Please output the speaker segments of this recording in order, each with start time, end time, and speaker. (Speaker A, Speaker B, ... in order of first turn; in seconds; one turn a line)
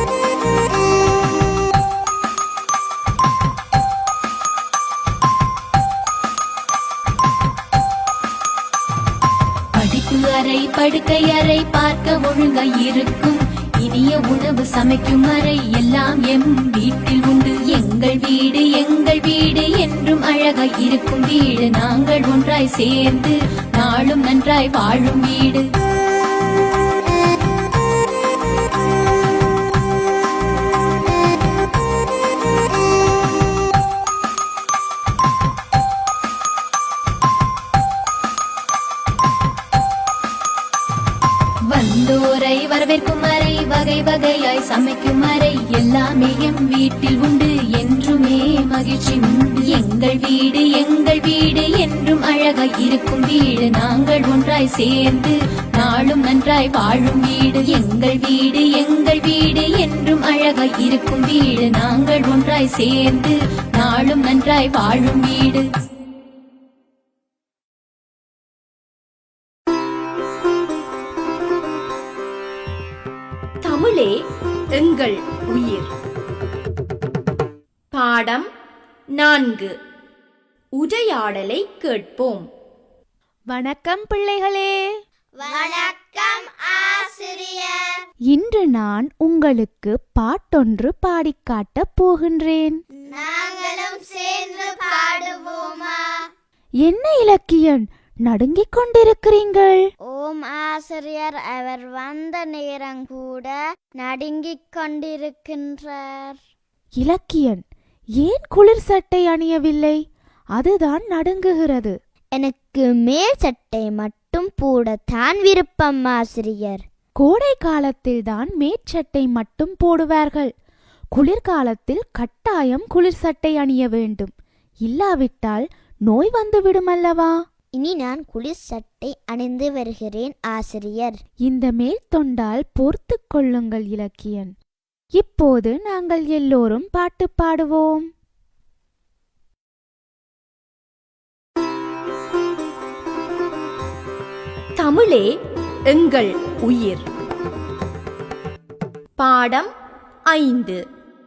Speaker A: 9.7-25.7
Speaker A: 41.7-65.7
Speaker B: 73.6-74.1
Speaker B: 74.8-75.9
Speaker B: 77.9-78.5
Speaker B: 79.1-79.7
Speaker B: 80.8-82.4
Speaker C: 83.5-84.8
Speaker D: 85.4-88.0
Speaker C: 88.3-92.8
Speaker D: 93.1-96.1
Speaker C: 96.8-99.8
Speaker D: 100.1-106.4
Speaker C: 107.0-107.6
Speaker C: 108.2-110.0
Speaker C: 110.5-111.9
Speaker D: 112.3-116.8
Speaker C: 117.2-120.5
Speaker C: 121.1-124.3
Speaker C: 124.8-127.3
Speaker D: 127.7-131.2
Speaker C: 131.4-134.5
Speaker C: 135.2-138.1
Speaker B: 144.8-145.3
Speaker B: 145.9-147.1
Speaker B: 149.2-149.7
Speaker B: 150.3-150.8